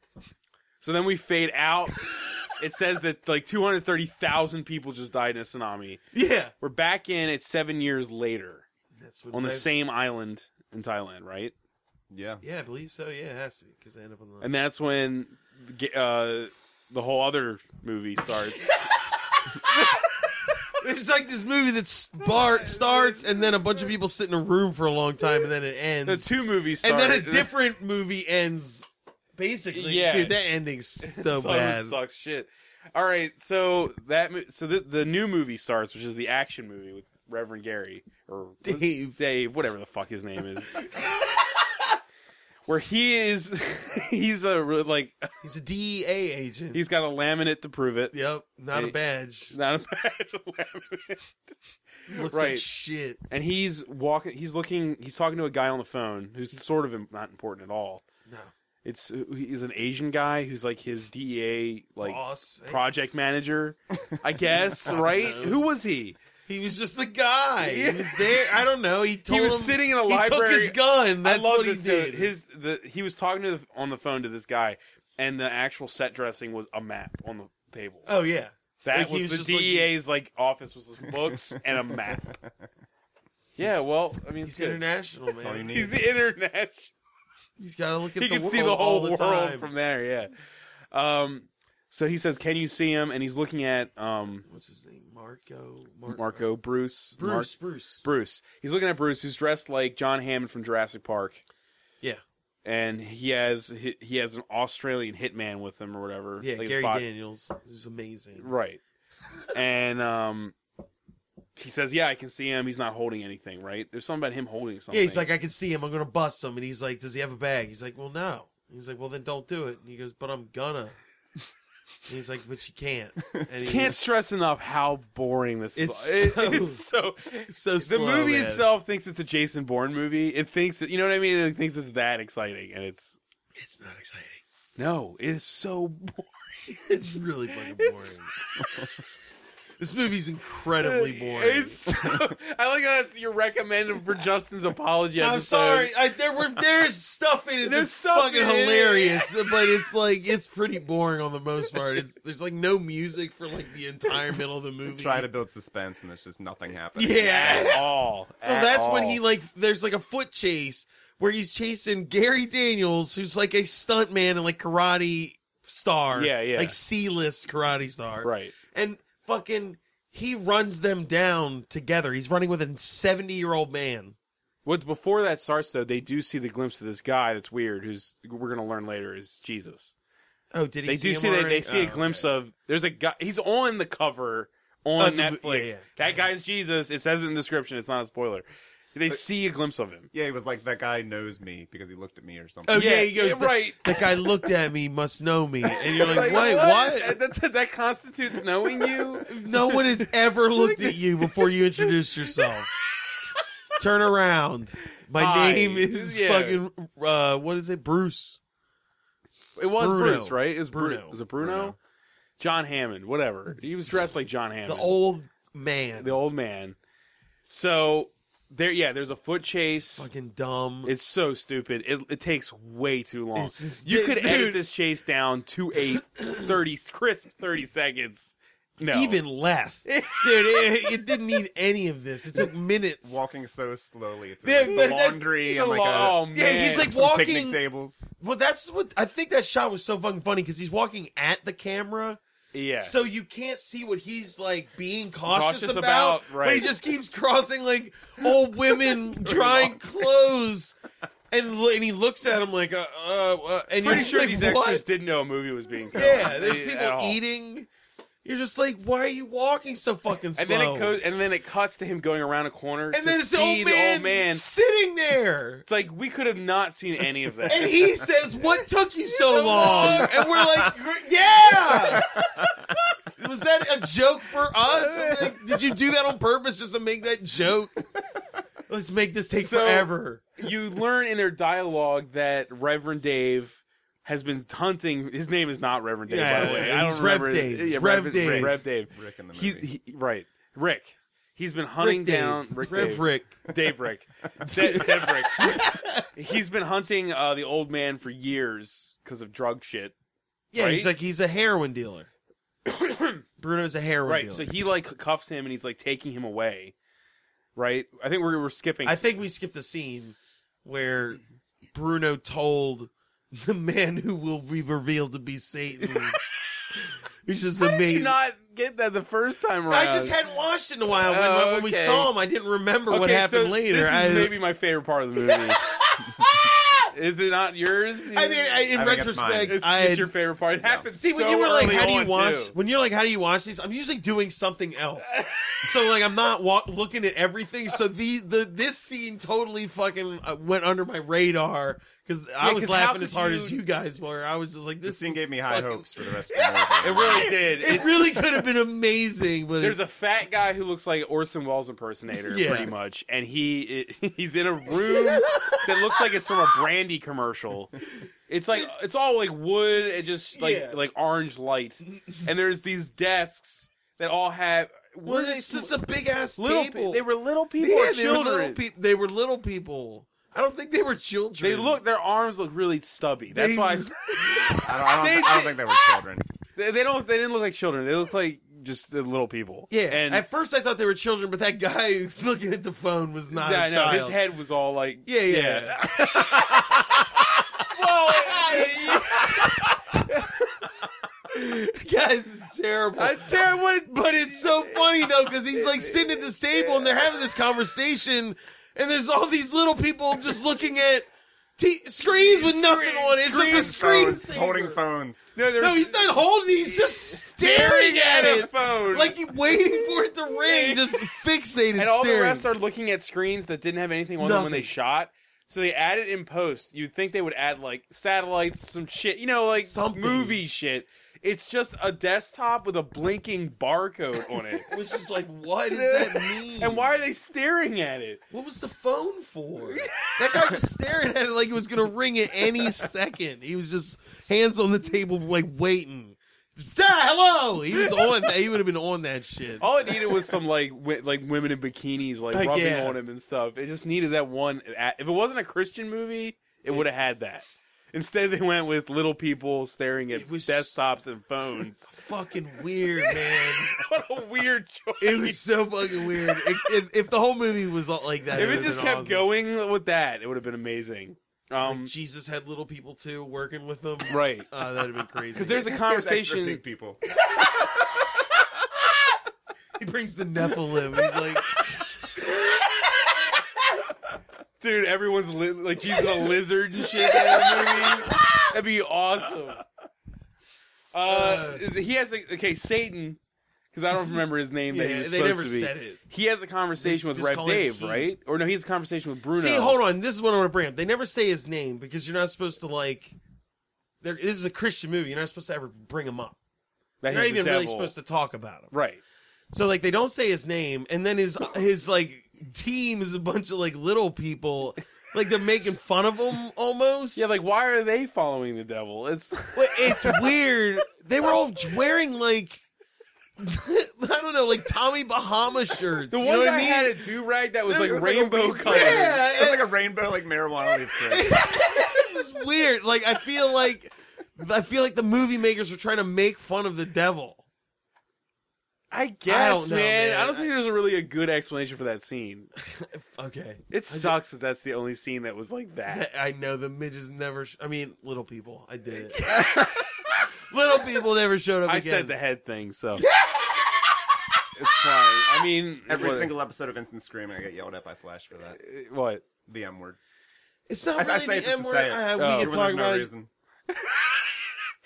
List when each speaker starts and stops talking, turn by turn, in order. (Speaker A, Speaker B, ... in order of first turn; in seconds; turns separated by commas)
Speaker A: 0.8-2.0, Speaker A: 2.6-6.0, Speaker B: 6.1-6.5, Speaker A: 6.6-8.7, Speaker B: 8.9-9.7, Speaker A: 9.3-11.5, Speaker C: 12.1-12.4, Speaker B: 12.4-14.5, Speaker A: 14.4-18.8, Speaker B: 20.8-26.3, Speaker A: 22.2-23.9, Speaker A: 26.1-27.5, Speaker B: 26.8-32.0, Speaker A: 29.7-30.4, Speaker A: 31.0-40.8, Speaker B: 38.6-39.2, Speaker A: 42.7-45.3, Speaker B: 45.4-46.8, Speaker A: 46.7-48.1, Speaker B: 48.1-49.5, Speaker A: 49.5-51.5, Speaker B: 52.1-53.2, Speaker A: 52.3-52.7, Speaker A: 53.3-58.0, Speaker A: 58.8-66.2, Speaker B: 62.0-62.8, Speaker B: 64.7-65.7, Speaker B: 66.5-72.3, Speaker A: 67.6-68.5, Speaker A: 69.3-78.1, Speaker B: 78.1-79.9, Speaker A: 78.8-82.3, Speaker C: 82.2-82.5, Speaker A: 83.6-84.8, Speaker B: 84.4-85.7, Speaker C: 85.3-86.0, Speaker A: 85.7-86.9, Speaker B: 87.6-89.7, Speaker A: 88.2-90.3, Speaker A: 90.9-94.5, Speaker B: 94.5-96.5, Speaker A: 96.1-97.5, Speaker B: 97.2-98.1, Speaker A: 98.0-101.4, Speaker A: 102.7-107.0, Speaker B: 106.4-108.5, Speaker A: 108.4-108.8, Speaker A: 109.5-110.5, Speaker A: 111.6-115.3, Speaker B: 114.9-121.0, Speaker B: 122.1-124.2, Speaker A: 123.6-133.2, Speaker B: 125.8-126.8, Speaker B: 127.5-128.7, Speaker B: 133.6-134.4, Speaker A: 134.8-136.4, Speaker B: 136.7-138.3, Speaker A: 137.8-138.2, Speaker B: 139.8-141.9, Speaker A: 140.8-145.9, Speaker B: 145.2-155.3, Speaker A: 147.6-149.3, Speaker C: 154.9-157.8, Speaker B: 157.0-157.8, Speaker A: 157.2-159.2, Speaker B: 158.4-174.2, Speaker A: 166.1-166.8, Speaker A: 168.2-168.5, Speaker A: 174.7-179.9, Speaker B: 180.5-182.1, Speaker A: 180.9-190.1, Speaker C: 181.9-182.2, Speaker B: 185.0-186.2, Speaker C: 190.1-193.0, Speaker B: 192.7-197.2, Speaker A: 192.7-194.0, Speaker A: 195.9-200.0, Speaker B: 199.2-202.7, Speaker A: 200.5-202.4, Speaker B: 203.8-208.4, Speaker A: 205.2-206.6, Speaker A: 209.6-211.8, Speaker B: 209.8-211.2, Speaker C: 211.4-211.8, Speaker A: 212.4-214.9, Speaker B: 214.7-216.1, Speaker A: 216.0-216.8, Speaker A: 217.5-220.1, Speaker B: 219.8-220.9, Speaker A: 220.8-229.2, Speaker B: 223.4-224.6, Speaker B: 226.2-226.4, Speaker B: 228.9-233.2, Speaker A: 229.9-231.1, Speaker C: 233.0-238.1, Speaker B: 234.4-237.6, Speaker A: 234.7-236.9, Speaker B: 238.2-242.2, Speaker A: 242.5-242.9, Speaker B: 242.8-250.8, Speaker A: 245.3-246.7, Speaker A: 249.1-250.0, Speaker B: 251.3-254.8, Speaker A: 253.8-257.2, Speaker B: 255.9-257.7, Speaker B: 258.2-261.0, Speaker A: 260.4-264.4, Speaker B: 262.9-265.6, Speaker A: 265.7-267.8, Speaker B: 267.4-272.2, Speaker A: 269.3-270.2, Speaker C: 269.8-270.2, Speaker C: 272.0-272.5, Speaker B: 273.2-277.8, Speaker A: 274.7-275.4, Speaker B: 278.7-280.3, Speaker A: 279.4-295.6, Speaker B: 286.1-288.6, Speaker C: 288.9-289.7, Speaker B: 291.8-293.5, Speaker B: 294.4-296.1, Speaker A: 296.1-299.9, Speaker B: 300.5-302.1, Speaker A: 300.6-300.9, Speaker A: 302.7-303.2, Speaker B: 303.4-304.5, Speaker A: 304.1-306.7, Speaker A: 307.6-309.0, Speaker B: 308.8-311.2, Speaker B: 311.7-316.2, Speaker A: 315.8-316.1, Speaker B: 316.8-318.2, Speaker A: 317.6-320.2, Speaker B: 319.7-324.3, Speaker A: 321.1-322.1, Speaker A: 322.9-325.6, Speaker B: 325.2-325.5, Speaker B: 326.2-326.8, Speaker A: 326.9-328.7, Speaker B: 328.1-330.1, Speaker C: 328.7-329.6, Speaker A: 329.4-332.5, Speaker C: 330.6-330.9, Speaker B: 330.9-349.8, Speaker A: 335.1-335.6, Speaker A: 342.4-343.6, Speaker C: 344.8-347.4, Speaker A: 346.8-348.2, Speaker A: 349.6-357.7, Speaker B: 352.3-352.7, Speaker B: 354.7-355.7, Speaker A: 358.3-365.7, Speaker B: 360.4-360.8, Speaker B: 365.1-367.1, Speaker A: 366.4-368.6, Speaker B: 367.6-371.8, Speaker A: 371.4-375.8, Speaker B: 373.3-374.6, Speaker C: 374.6-376.2, Speaker A: 376.6-380.2, Speaker B: 379.7-384.2, Speaker A: 383.3-386.8, Speaker B: 385.1-386.9, Speaker A: 387.7-390.3, Speaker B: 388.1-389.6, Speaker B: 391.3-393.4, Speaker A: 393.0-397.0, Speaker B: 393.9-404.8, Speaker A: 402.0-403.9, Speaker C: 403.2-405.3, Speaker A: 405.4-406.2, Speaker B: 405.6-412.5, Speaker A: 406.7-409.2, Speaker A: 410.5-410.9, Speaker A: 411.8-424.7, Speaker B: 414.2-414.7, Speaker B: 419.6-420.4, Speaker B: 424.6-427.0, Speaker A: 425.7-428.2, Speaker B: 428.3-440.0, Speaker A: 429.7-430.6, Speaker A: 437.8-438.1, Speaker A: 439.6-451.9, Speaker B: 442.3-443.0, Speaker B: 450.1-450.8, Speaker B: 451.9-453.8, Speaker A: 453.0-456.7, Speaker B: 455.0-459.3, Speaker A: 458.3-461.9, Speaker B: 461.6-465.7, Speaker A: 464.1-464.5, Speaker A: 465.4-466.6, Speaker C: 465.4-467.0, Speaker B: 469.8-471.6, Speaker A: 474.6-479.6, Speaker B: 477.0-478.4, Speaker A: 480.9-483.2, Speaker B: 481.1-481.6, Speaker A: 483.7-489.8, Speaker B: 484.7-486.0, Speaker B: 486.8-488.1, Speaker B: 489.3-493.1, Speaker B: 494.0-496.4, Speaker A: 497.0-498.0, Speaker B: 497.1-498.7, Speaker A: 498.7-499.0, Speaker B: 499.5-507.3, Speaker A: 507.2-510.3, Speaker B: 509.6-512.6, Speaker B: 513.4-517.0, Speaker A: 516.1-519.1, Speaker C: 517.7-521.5, Speaker B: 518.6-519.7, Speaker B: 521.1-527.4, Speaker A: 528.9-532.5, Speaker B: 529.3-530.5, Speaker B: 532.7-534.2, Speaker A: 533.7-536.0, Speaker B: 535.9-539.7, Speaker B: 540.5-542.1, Speaker A: 541.7-543.0, Speaker B: 542.9-543.8, Speaker A: 544.6-546.3, Speaker C: 545.9-548.6, Speaker A: 548.6-549.2, Speaker C: 549.5-550.0, Speaker B: 550.7-553.1, Speaker C: 551.0-553.3, Speaker A: 552.2-552.7, Speaker A: 553.8-554.2